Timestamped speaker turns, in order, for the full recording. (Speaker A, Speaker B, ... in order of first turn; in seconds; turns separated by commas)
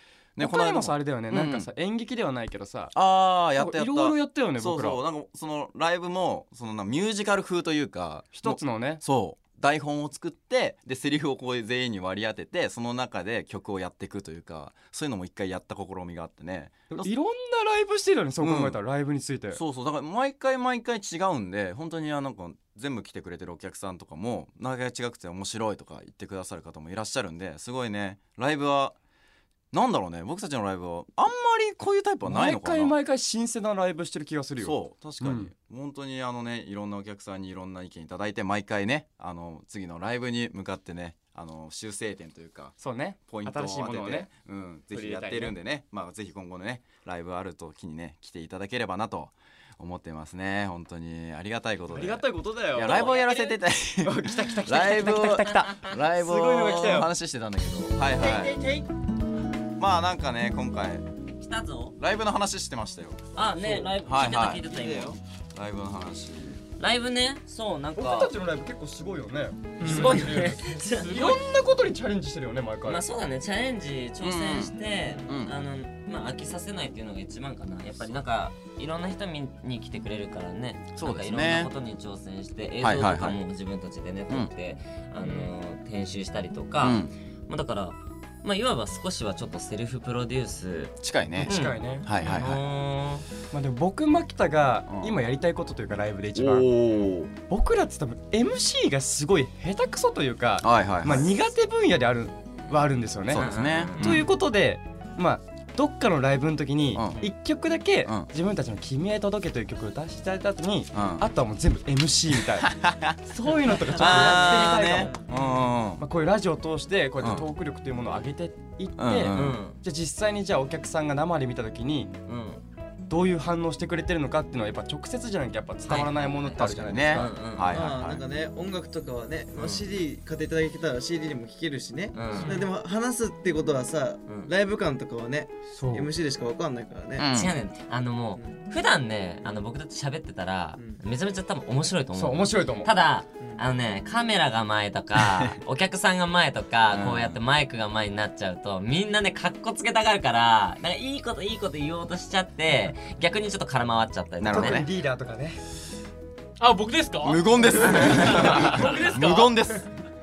Speaker A: 0.3-1.7, Speaker B: 0.4-2.9, Speaker A: 2.9-17.1, Speaker B: 3.6-5.0, Speaker B: 8.3-9.0, Speaker B: 16.9-19.6, Speaker A: 18.4-18.8, Speaker A: 19.5-28.9, Speaker A: 29.7-32.9, Speaker B: 32.2-35.5, Speaker A: 34.6-42.7, Speaker B: 42.8-44.3, Speaker A: 43.3-58.5, Speaker B: 44.9-45.5, Speaker B: 51.9-52.9, Speaker C: 52.8-53.6, Speaker B: 54.0-57.1, Speaker B: 58.4-58.8, Speaker A: 59.8-61.0, Speaker C: 61.4-62.0, Speaker A: 62.0-63.2, Speaker C: 63.3-65.2, Speaker A: 64.0-64.7, Speaker D: 64.6-65.2, Speaker A: 65.5-66.6, Speaker C: 66.8-68.4, Speaker B: 68.0-70.4, Speaker E: 69.8-71.4, Speaker C: 69.8-71.2, Speaker B: 71.1-73.0, Speaker C: 72.8-90.9, Speaker A: 74.2-74.8, Speaker A: 75.3-75.6, Speaker A: 80.9-81.7, Speaker A: 82.8-83.4, Speaker E: 85.2-85.5, Speaker A: 86.8-87.1, Speaker A: 91.0-92.6, Speaker B: 91.4-92.1, Speaker C: 91.4-93.2, Speaker B: 93.5-96.7, Speaker A: 94.9-95.2, Speaker A: 96.3-97.3, Speaker B: 97.5-103.4, Speaker A: 100.6-101.3, Speaker C: 103.3-104.2, Speaker A: 103.3-104.3, Speaker E: 104.0-104.3, Speaker B: 104.0-112.6, Speaker A: 107.0-107.2, Speaker A: 110.9-111.2, Speaker A: 112.5-113.2, Speaker B: 113.2-115.1, Speaker D: 113.5-115.3, Speaker A: 114.0-116.0, Speaker B: 116.0-122.1, Speaker A: 117.2-117.5, Speaker A: 119.0-119.6, Speaker C: 119.3-119.8, Speaker C: 122.3-122.6, Speaker B: 123.1-127.3, Speaker C: 125.8-127.8, Speaker A: 126.6-128.2, Speaker D: 127.7-137.3, Speaker A: 129.6-129.8, Speaker C: 132.1-132.7, Speaker B: 135.7-136.0, Speaker A: 137.2-137.5, Speaker C: 137.2-154.8, Speaker B: 142.2-142.9, Speaker A: 146.9-147.4, Speaker A: 154.4-154.9, Speaker B: 154.5-155.6, Speaker E: 156.6-159.6, Speaker A: 157.2-159.9